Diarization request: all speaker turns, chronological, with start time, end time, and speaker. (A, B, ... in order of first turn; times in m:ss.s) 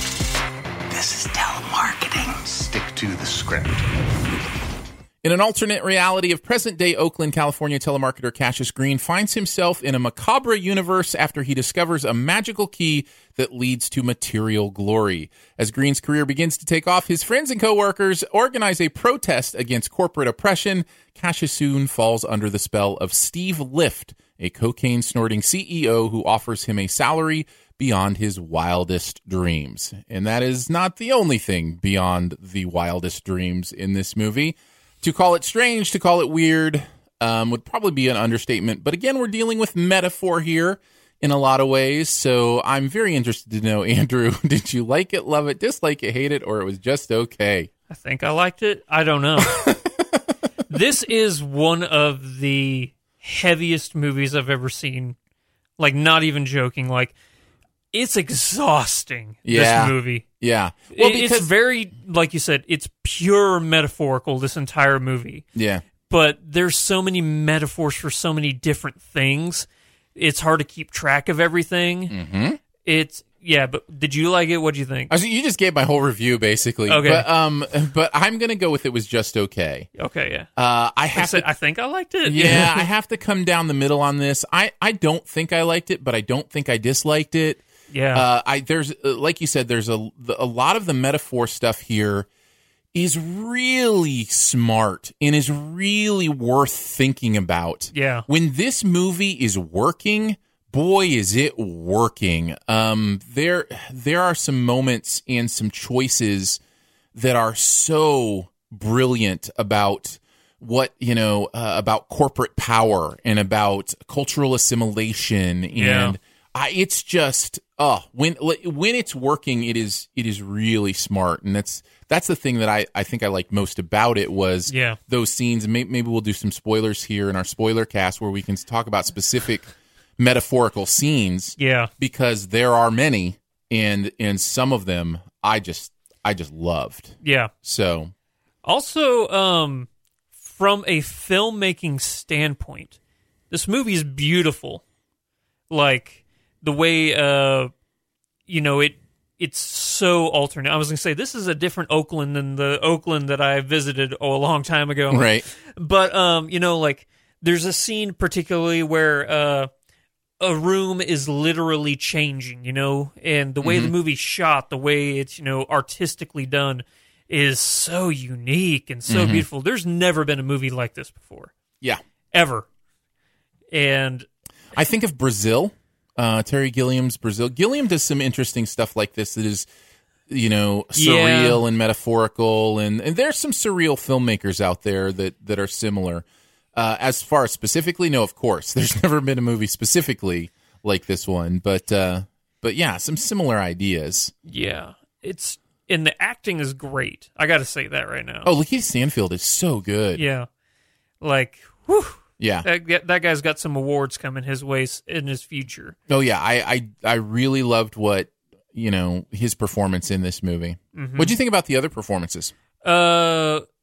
0:00.9-0:04.1 A
0:05.2-0:47.7 B
0:47.9-0:49.7 C
0:49.4-0:50.2 B
0:50.7-0:55.1 C
0:55.8-0:57.1 C
0:57.9-1:00.2 C
0:59.4-1:01.5 B
1:00.9-1:05.4 C
1:05.6-1:05.8 B
1:06.0-1:12.1 C
1:12.1-1:12.6 B
1:12.8-1:15.1 C
1:15.1-1:19.9 B
1:16.9-1:17.3 C
1:20.0-1:20.5 C
1:20.6-1:21.5 B
1:21.1-1:22.9 C
1:22.3-1:32.3 B
1:27.9-1:28.3 C
1:32.9-1:46.6 B
1:37.9-1:38.3 C
1:47.1-2:18.1 B
1:55.7-1:56.2 C
2:04.7-2:05.0 C
2:11.6-2:11.9 C
2:17.2-2:17.5 C
2:18.6-2:23.0 C
2:23.5-2:24.8 C
2:25.7-2:27.7 C
2:28.5-2:39.7 C
2:35.1-2:35.4 B
2:40.4-2:51.5 C
2:43.6-2:43.9 B
2:49.1-2:49.4 B
2:52.3-2:52.6 C
2:53.7-2:54.3 C
2:54.8-2:59.7 B
3:00.3-3:14.3 B
3:00.9-3:01.6 C
3:14.4-3:18.5 C
3:18.4-3:20.2 B
3:20.2-3:20.5 C
3:21.2-3:26.0 C
3:22.4-3:22.7 B
3:26.1-3:32.5 B
3:30.9-3:31.4 C
3:32.8-3:33.6 C